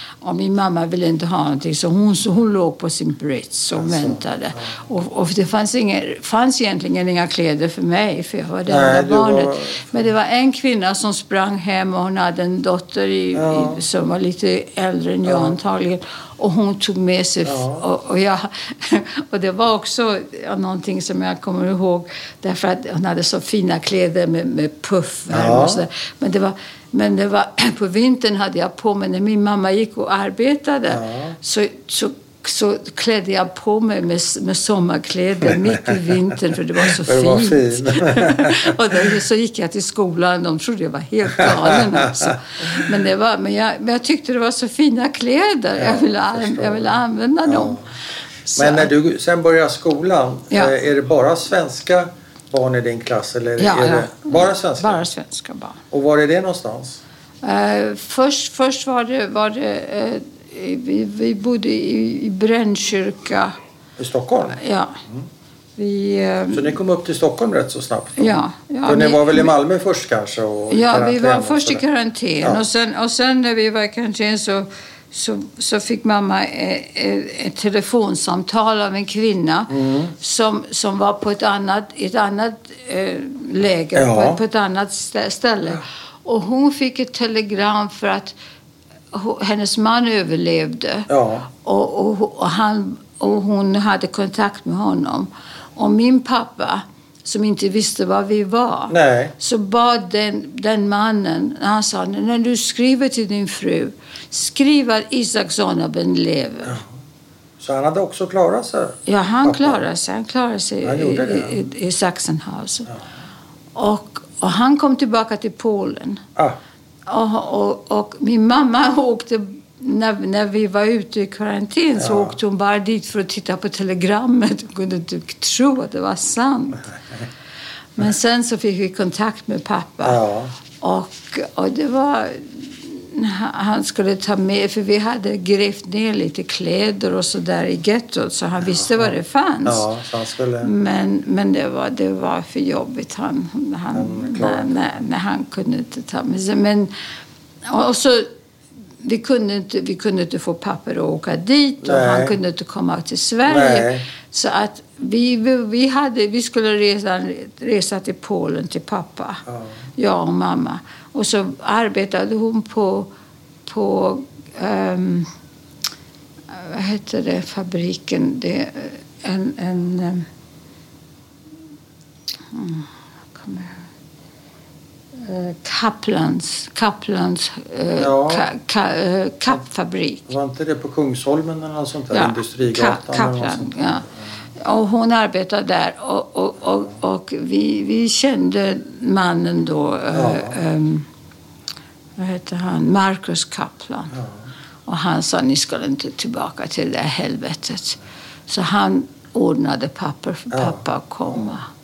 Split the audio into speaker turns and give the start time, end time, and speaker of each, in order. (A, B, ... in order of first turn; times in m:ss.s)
0:00.2-0:47.8 A
0:03.8-0:04.8 B
0:08.7-0:10.1 B
0:13.3-0:13.8 B
0:15.2-0:15.5 B
0:17.4-0:17.8 B
0:25.3-0:25.8 B
0:30.9-0:31.4 B
0:35.5-0:35.8 B
0:36.8-0:39.2 B
0:41.4-0:42.8 B
0:45.8-0:46.9 B
0:47.4-0:47.9 B
0:48.5-0:48.9 A
0:48.5-0:55.0 B
0:53.6-0:55.8 A
0:55.9-0:57.0 B
0:57.4-1:03.5 A
1:04.0-1:05.2 B
1:04.5-1:05.0 A
1:05.8-1:06.8 A
1:06.5-1:11.8 B
1:08.2-1:09.5 A
1:10.7-1:28.3 A
1:19.7-1:20.1 B
1:23.9-1:24.4 B
1:29.1-1:46.8 A
1:31.1-1:31.5 B
1:38.9-1:39.3 B
1:47.6-1:49.8 B
1:49.0-1:52.9 A
1:50.8-1:51.6 B
1:53.7-1:56.2 A
1:57.1-2:06.9 A
2:02.0-2:02.4 B
2:08.0-2:10.2 A
2:10.0-2:10.6 B
2:10.7-2:19.8 A
2:18.7-2:20.7 B
2:20.6-2:26.9 A
2:23.9-2:25.0 B
2:27.6-2:28.3 A
2:29.0-2:39.4 A
2:31.8-2:32.4 B
2:33.5-2:34.0 B
2:39.4-2:39.8 B
2:40.0-2:43.1 A
2:43.6-2:45.3 A
2:46.5-2:50.3 A
2:52.5-2:53.8 A
2:55.2-3:00.3 A
2:58.0-2:58.5 B
3:00.3-3:04.2 B
3:02.1-3:04.0 A
3:04.6-3:11.1 A
3:10.1-3:10.6 B
3:12.2-3:14.2 A
3:14.1-3:14.5 B
3:14.9-3:21.7 A
3:20.5-3:21.6 B